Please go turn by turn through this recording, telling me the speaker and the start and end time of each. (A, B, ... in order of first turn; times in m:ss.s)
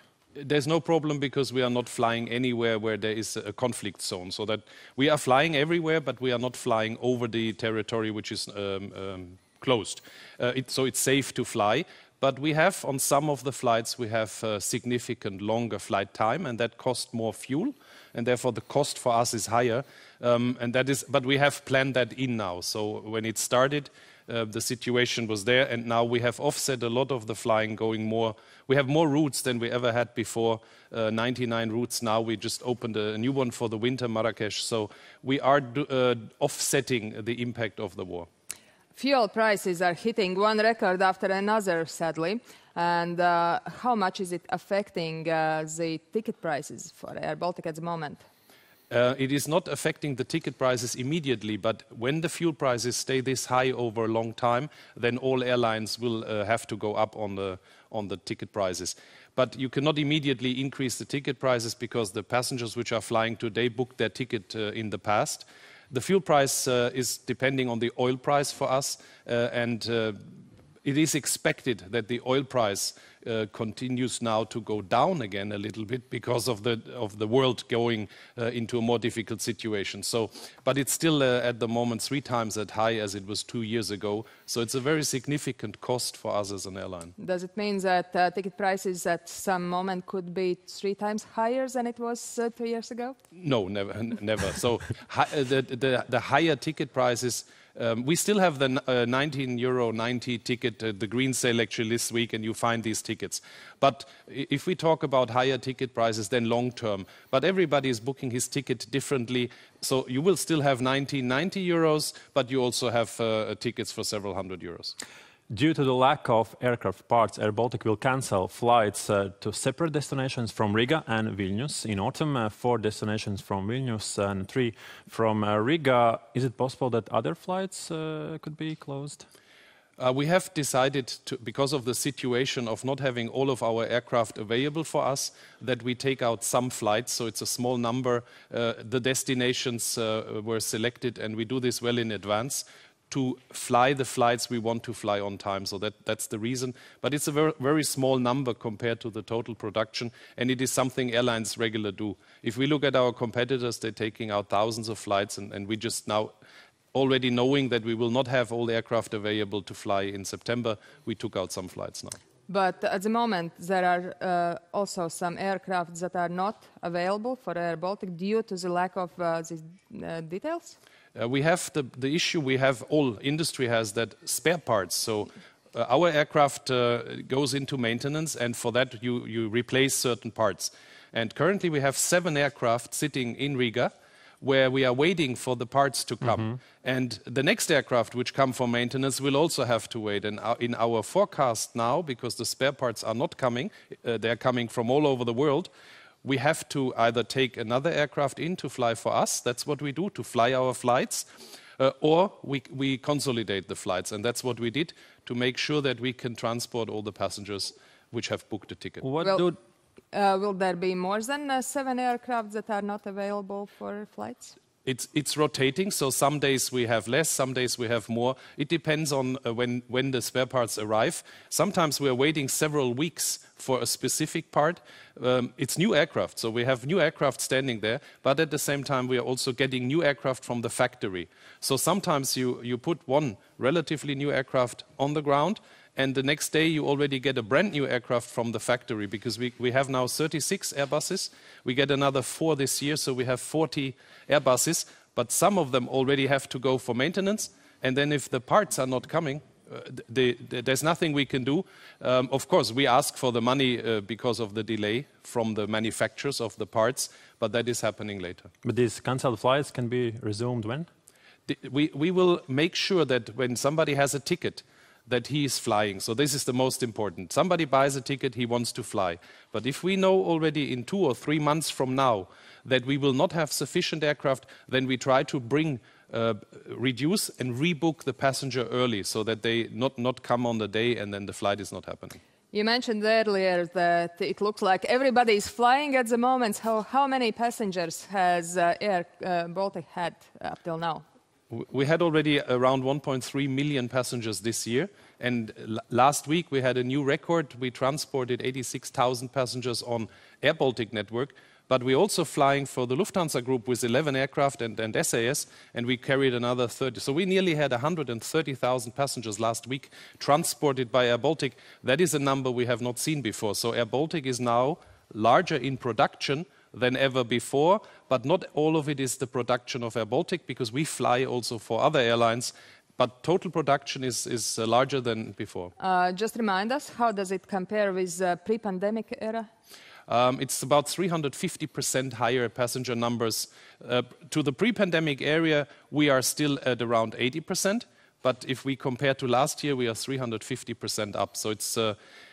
0:00.4-0:38.3 A
0:39.0-0:48.2 B
0:48.9-1:10.3 A
1:10.8-1:27.1 A
1:27.2-1:33.2 B
1:33.3-1:55.0 A
1:55.5-2:09.2 C
2:10.0-2:36.3 A
2:36.9-2:42.2 A
2:42.5-2:50.8 B
2:51.2-3:15.7 A
3:16.2-3:29.1 A
3:29.0-3:29.6 C
3:29.2-3:29.5 B
3:30.1-3:34.6 B
3:34.8-4:18.5 A
4:18.6-4:20.9 C
4:21.5-4:42.2 A
4:42.5-4:51.0 B
4:51.5-5:25.7 A
5:25.8-5:29.5 B
5:30.1-5:42.0 A